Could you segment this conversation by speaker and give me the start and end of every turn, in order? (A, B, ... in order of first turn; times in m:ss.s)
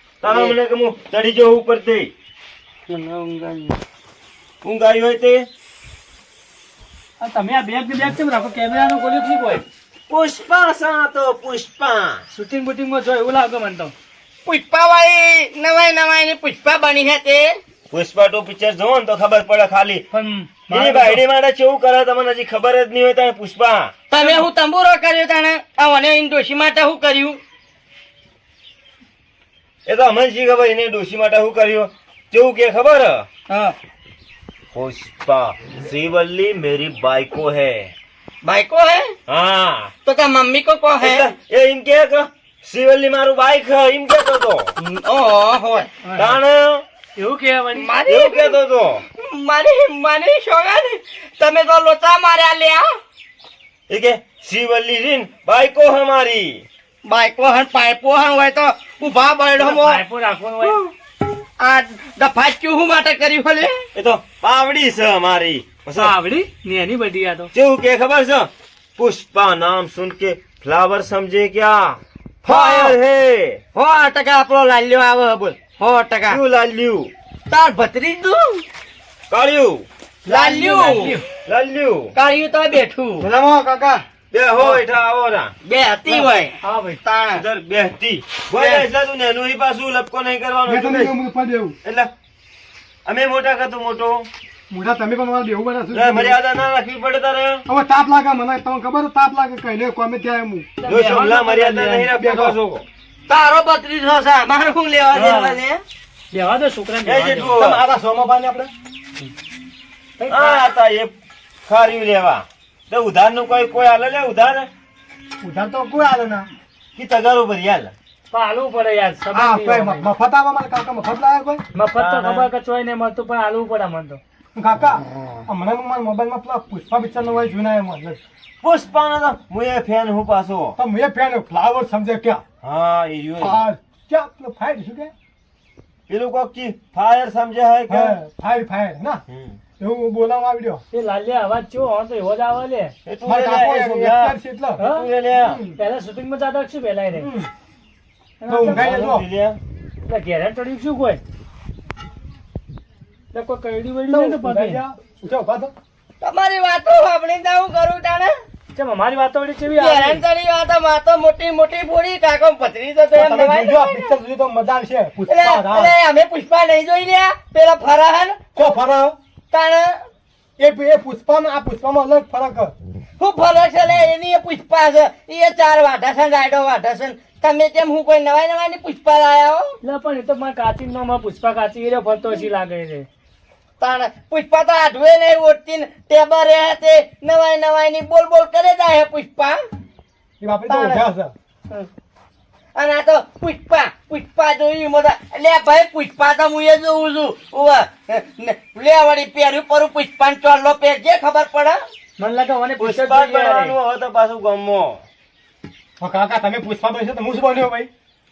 0:00.2-0:02.1 A
0:00.3-0:00.6 B
0:02.9-0:03.8 B
0:04.6-0:05.5 A
0:07.2-0:09.6 C
0:10.1-0:12.2 A
0:12.3-0:13.9 C
0:14.4-0:17.6 B
0:17.9-0:20.1 A
0:20.1-0:21.2 C
0:20.7-0:23.9 A
0:24.1-0:27.4 B
0:24.2-0:24.4 C
0:29.8-0:33.2 A
0:33.5-0:33.7 B
0:34.7-0:37.9 A
0:38.4-0:39.1 B
0:39.3-0:39.9 A
0:40.0-0:41.3 B
0:41.0-0:44.7 A
0:44.8-0:45.9 B
0:46.0-0:46.4 C
0:46.2-0:46.8 A
0:47.2-0:48.0 C
0:47.8-0:48.6 B
0:48.0-0:49.0 A
0:49.2-0:52.9 B
0:53.9-0:56.6 A
0:57.0-1:00.0 B
0:59.6-1:00.8 C
1:00.6-1:00.9 B
1:01.6-1:03.9 B
1:03.9-1:06.1 A
1:05.9-1:07.5 C
1:07.5-1:13.6 A
1:12.4-1:13.0 B
1:13.7-1:16.4 B
1:16.3-1:17.1 A
1:17.5-1:18.6 B
1:19.3-1:19.8 A
1:20.2-1:21.2 B
1:20.2-1:21.2 C
1:21.4-1:22.1 A
1:22.1-1:23.3 B
1:23.2-1:24.0 D
1:24.3-1:25.5 A
1:25.6-1:27.4 B
1:26.6-1:27.0 C
1:27.3-1:31.2 A
1:28.5-1:28.8 B
1:30.7-1:31.8 D
1:31.8-1:32.1 A
1:33.0-1:34.3 A
1:34.7-1:36.4 D
1:35.9-1:37.6 A
1:37.7-1:40.8 D
1:40.8-1:42.0 C
1:40.8-1:42.8 A
1:42.0-1:42.6 D
1:43.3-1:45.8 B
1:45.1-1:45.6 C
1:46.3-1:47.6 C
1:47.0-1:47.8 A
1:47.6-1:48.7 D
1:50.2-1:50.6 C
1:50.3-1:51.1 A
1:51.6-1:54.7 A
1:55.4-1:56.5 D
1:57.0-1:57.9 A
1:58.3-2:00.1 C
1:59.3-2:01.6 D
2:01.7-2:04.2 C
2:02.0-2:02.5 A
2:04.5-2:08.2 D
2:08.6-2:10.8 A
2:10.8-2:12.4 D
2:12.6-2:13.6 A
2:13.4-2:15.1 D
2:16.1-2:18.2 A
2:17.9-2:19.2 D
2:19.3-2:19.6 A
2:19.8-2:20.8 D
2:20.9-2:22.9 C
2:23.0-2:25.6 A
2:23.2-2:25.8 D
2:24.8-2:25.1 C
2:25.8-2:27.3 C
2:27.1-2:27.5 D
2:28.4-2:29.0 C
2:28.5-2:29.2 D
2:28.7-2:29.6 A
2:30.1-2:31.2 C
2:33.3-2:34.8 C
2:34.1-2:35.7 D
2:36.2-2:38.4 B
2:38.7-2:40.2 C
2:39.7-2:44.1 B
2:43.1-2:45.9 D
2:45.3-2:48.7 B
2:48.6-2:49.2 D
2:49.5-2:50.0 B
2:50.6-2:52.7 D
2:53.2-2:59.8 B
2:59.8-3:03.1 C
3:03.8-3:09.6 B
3:10.4-3:11.3 D
3:10.7-3:11.0 B
3:12.7-3:21.8 B
3:22.2-3:23.8 C
3:22.8-3:25.0 A
3:26.0-3:27.9 D